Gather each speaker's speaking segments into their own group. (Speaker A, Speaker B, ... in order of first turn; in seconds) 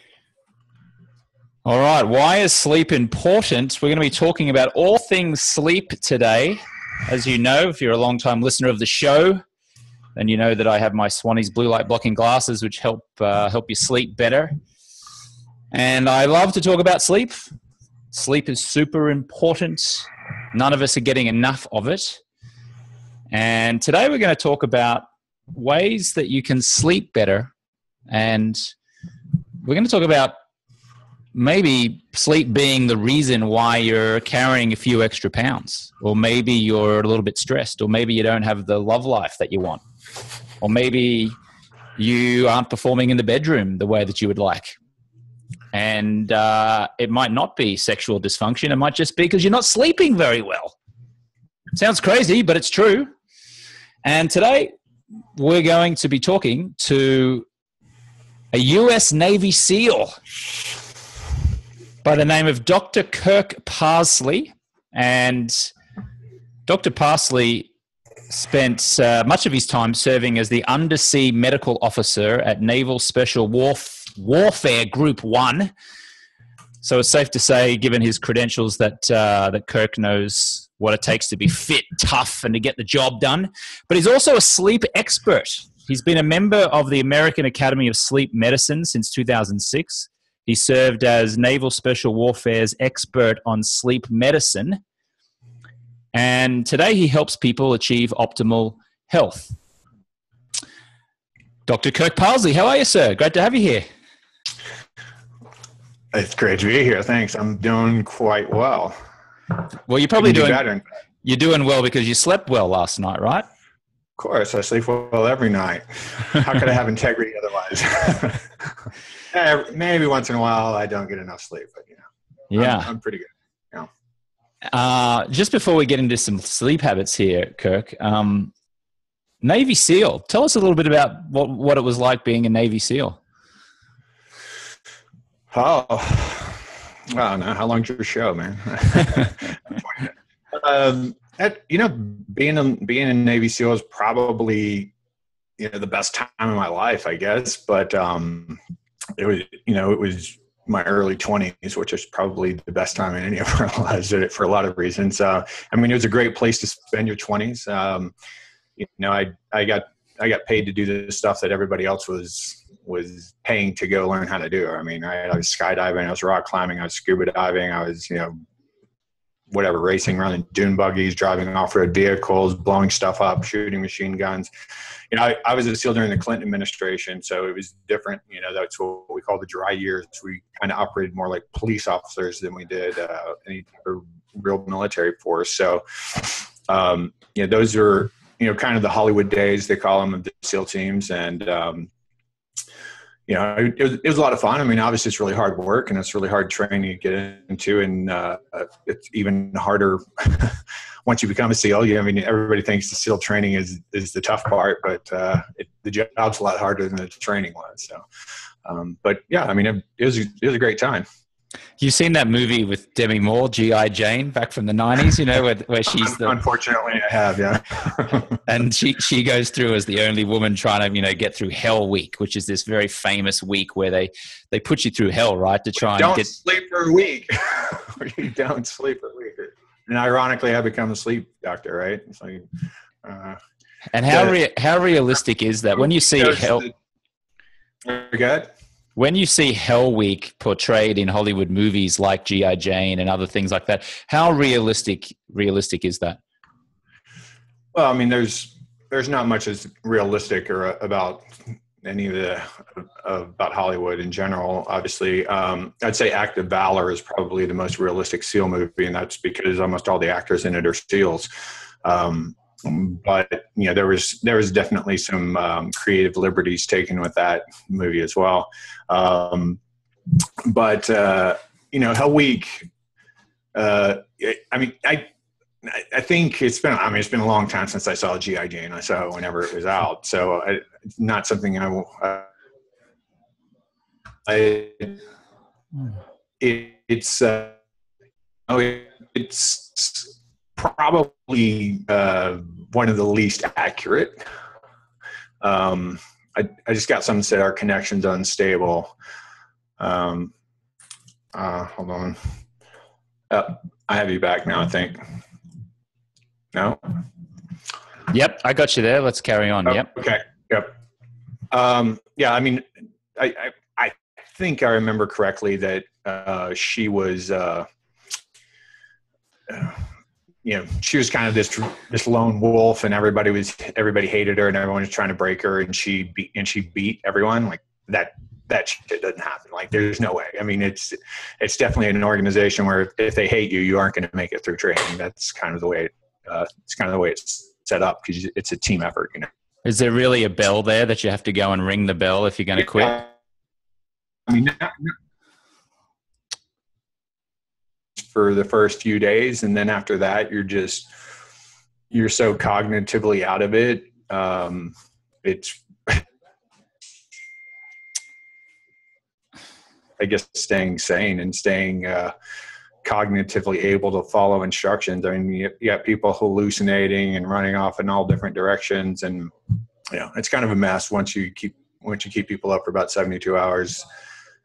Speaker A: 1.6-9.4, 10.2-14.6, 15.7-17.5, 18.1-22.2, 23.3-27.5, 28.1-28.7, 29.6-30.4, 31.3-39.8, 40.6-41.4, 42.0-44.7, 45.7-50.8, 51.7-53.1, 54.0-54.7, 55.4-57.5, 58.5-60.2, 62.0-65.7, 66.7-67.7, 68.3-75.7, 76.8-94.8, 96.1-99.6, 101.7-103.8, 109.9-110.7, 111.2-113.5, 122.5-122.9, 124.7-128.5, 129.4-133.2, 211.8-216.4, 218.5-226.3, 233.9-236.7, 239.0-246.2, 308.1-309.9, 339.6-343.1
Speaker B: 106.1-109.0, 110.2-110.8, 114.2-122.0, 122.6-123.9, 135.5-144.9, 145.6-148.6, 149.2-158.1, 158.8-168.3, 169.5-174.5, 175.1-191.9, 193.3-208.0, 208.7-211.1, 215.9-218.4, 225.9-232.5, 233.0-233.4, 234.1-234.4, 235.8-236.7, 237.8-238.5, 247.7-251.3, 251.8-261.3, 261.8-269.6, 270.4-272.7, 273.5-275.1, 275.6-282.3, 284.3-285.0, 286.4-287.6, 288.5-294.2, 295.4-298.9, 299.8-300.3, 301.3-302.2, 303.3-305.0, 306.5-306.9, 309.7-310.7, 311.5-317.7, 319.5-319.8, 320.4-339.3, 342.6-343.1, 344.3-344.9, 348.0-350.9, 351.9-356.1, 360.0-362.1, 362.8-369.3, 369.9-373.9